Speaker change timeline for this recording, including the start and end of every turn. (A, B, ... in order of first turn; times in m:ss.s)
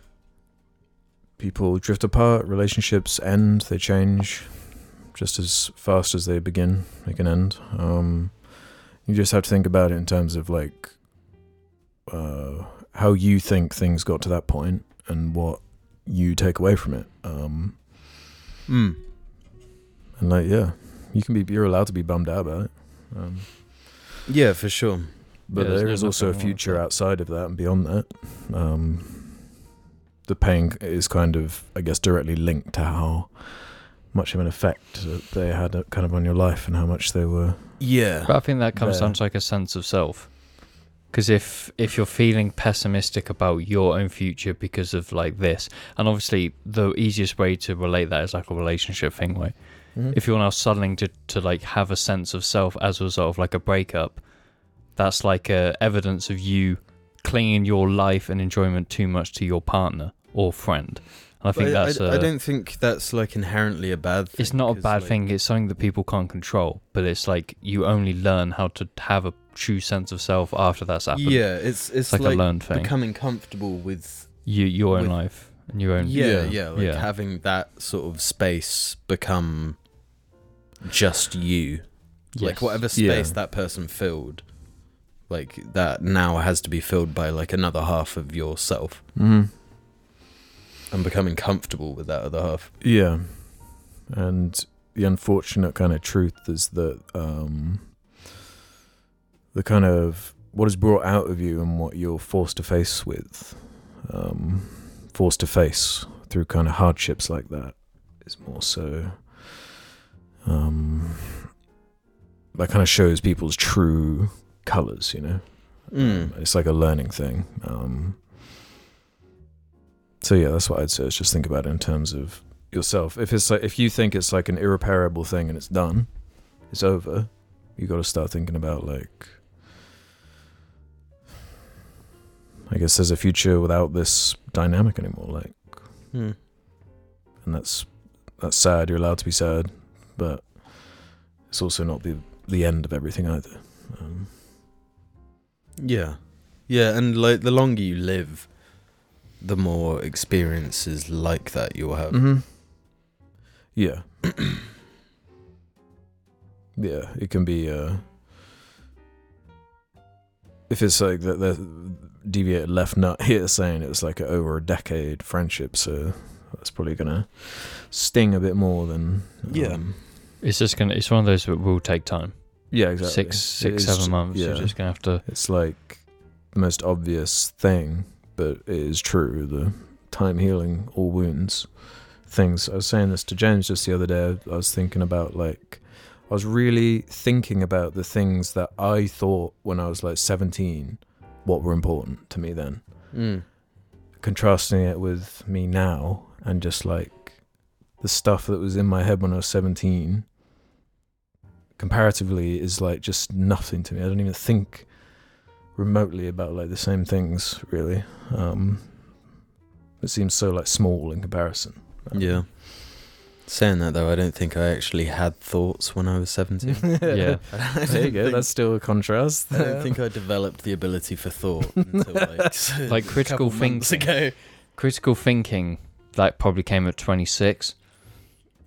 0:01.4-0:08.5 A
0:09.0-0:11.0 A
0:12.1-0:17.8 A
0:18.7-0:19.0 B
0:20.2-0:24.0 A
0:24.3-0:25.1 B
0:25.5-0:29.6 A
0:25.5-0:26.8 C
0:30.3-0:37.8 A
0:37.8-0:38.3 B
0:38.3-0:40.3 C
0:38.7-0:39.2 A
0:41.1-0:49.6 C
0:50.1-0:54.2 C
0:55.0-1:02.3 C
1:01.6-1:05.2 B
1:04.4-1:11.6 C
1:11.1-1:15.2 B
1:12.1-1:12.9 C
1:14.4-1:17.1 C
1:16.0-1:19.8 B
1:16.1-1:16.6 A
1:20.8-1:24.4 B
1:22.4-1:22.8 C
1:22.9-1:23.4 A
1:25.3-1:29.0 B
1:29.2-1:29.5 A
1:30.9-1:32.7 B
1:32.8-1:38.0 A
1:39.5-1:49.8 A
1:50.4-1:51.5 A
1:52.6-1:58.2 A
1:55.9-1:56.3 B
2:00.2-2:06.1 A
2:06.7-2:09.4 A
2:12.7-2:15.8 A
2:17.4-2:24.3 A
2:25.8-2:28.5 B
2:29.4-2:32.2 B
2:32.1-2:32.5 A
2:33.8-2:34.3 A
2:36.8-2:38.0 A
2:40.7-2:50.0 A
2:49.5-2:49.8 B
2:50.4-2:52.3 C
2:52.7-3:01.7 A
2:53.0-2:55.2 C
3:02.3-3:12.8 A
3:13.1-3:13.4 B
3:14.2-3:17.4 A
3:18.0-3:20.3 A
3:21.8-3:24.9 A
3:25.8-3:29.0 A
3:30.0-3:32.4 A
3:32.1-3:38.5 B
3:36.6-3:40.0 A
3:37.1-3:37.4 C
3:39.5-3:44.4 B
3:42.2-3:42.4 A
3:42.9-3:44.1 C
3:44.8-3:47.8 C